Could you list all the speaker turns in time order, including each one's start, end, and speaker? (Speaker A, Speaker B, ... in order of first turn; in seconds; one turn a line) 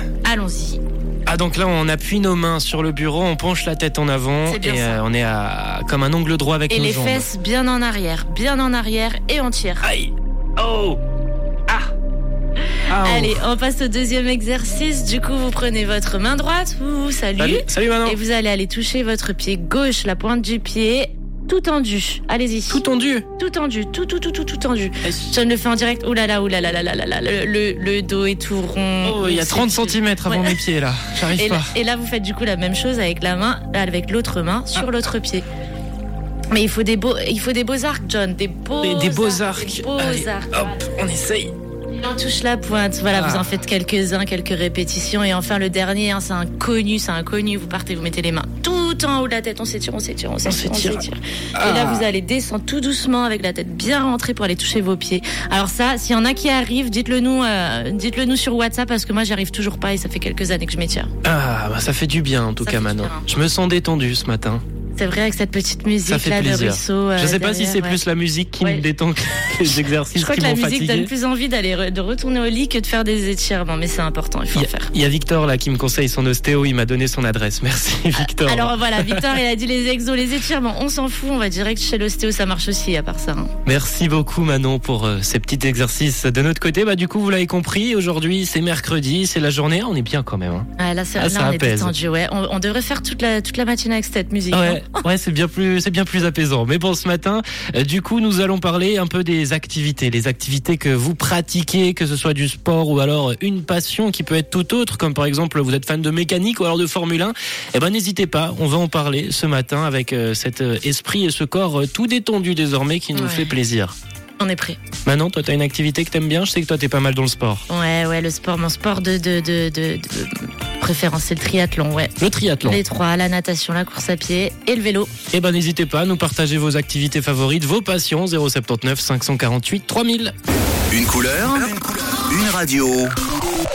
Speaker A: 0.2-0.8
Speaker B: 1.2-7.3
Speaker A: 4.4-5.0
Speaker A: 6.7-9.9
Speaker B: 9.8-11.0
Speaker B: 12.9-13.4
Speaker A: 12.9-22.8
Speaker B: 17.4-18.2
Speaker B: 22.7-23.2
Speaker A: 23.4-30.6
Speaker B: 25.0-25.3
Speaker B: 29.0-31.7
Speaker A: 31.3-35.4
Speaker A: 36.5-40.8
Speaker B: 38.8-41.5
Speaker A: 41.9-61.1
Speaker B: 43.1-43.6
Speaker B: 50.4-51.0
Speaker B: 51.5-52.1
Speaker B: 61.2-64.6
Speaker A: 62.6-63.3
Speaker A: 65.0-68.0
Speaker B: 66.0-71.1
Speaker A: 70.1-74.9
Speaker B: 74.5-79.4
Speaker A: 78.1-83.5
Speaker B: 83.6-91.9
Speaker A: 90.8-95.0
Speaker B: 94.5-113.9
Speaker A: 113.1-113.5
Speaker A: 114.4-114.8
Speaker B: 115.0-117.6
Speaker A: 117.7-125.1
Speaker B: 122.2-122.8
Speaker B: 125.3-130.3
Speaker C: 130.9-133.1